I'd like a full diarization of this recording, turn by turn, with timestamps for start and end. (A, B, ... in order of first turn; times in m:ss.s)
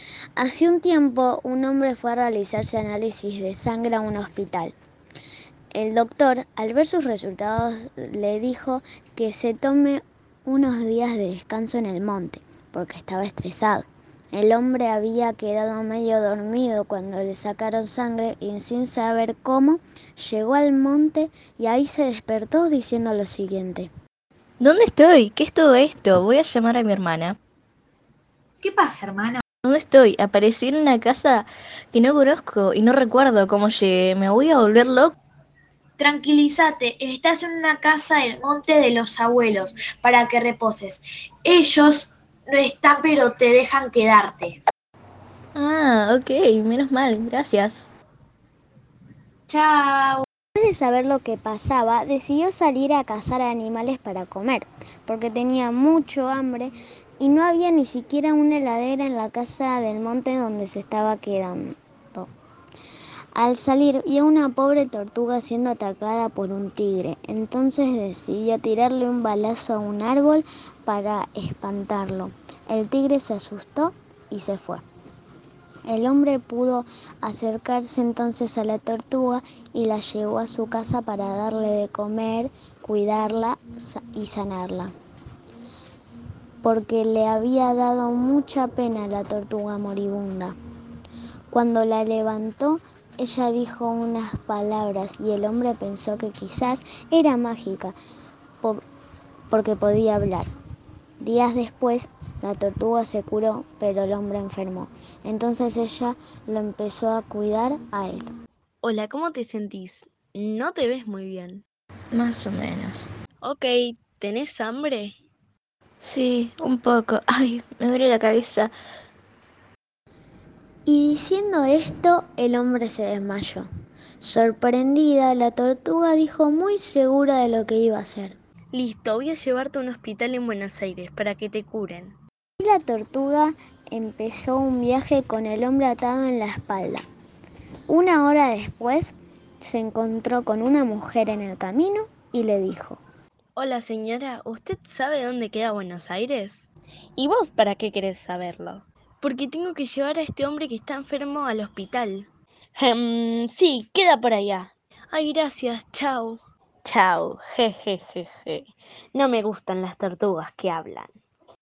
0:00.4-0:04.8 A
0:05.7-0:23.9 A
0:24.6-0:27.4 B
0:28.6-0:29.4 C
0:29.6-0:35.2 B
0:36.0-0:44.6 C
0:45.6-0:47.9 B
0:49.5-0:50.3 C
0:50.6-1:02.3 A
1:03.4-1:14.8 A
1:15.9-1:24.9 A
1:26.6-1:30.6 A
1:31.5-1:38.0 A
1:39.5-1:40.5 A
1:41.2-1:48.3 A
1:48.8-1:51.6 D
1:52.1-1:53.1 B
1:53.4-1:55.2 D
1:56.0-1:58.7 B
2:00.9-2:03.7 A
2:04.2-2:08.4 A
2:08.7-2:12.2 D
2:12.6-2:17.1 A
2:17.9-2:23.0 A
2:23.6-2:41.2 D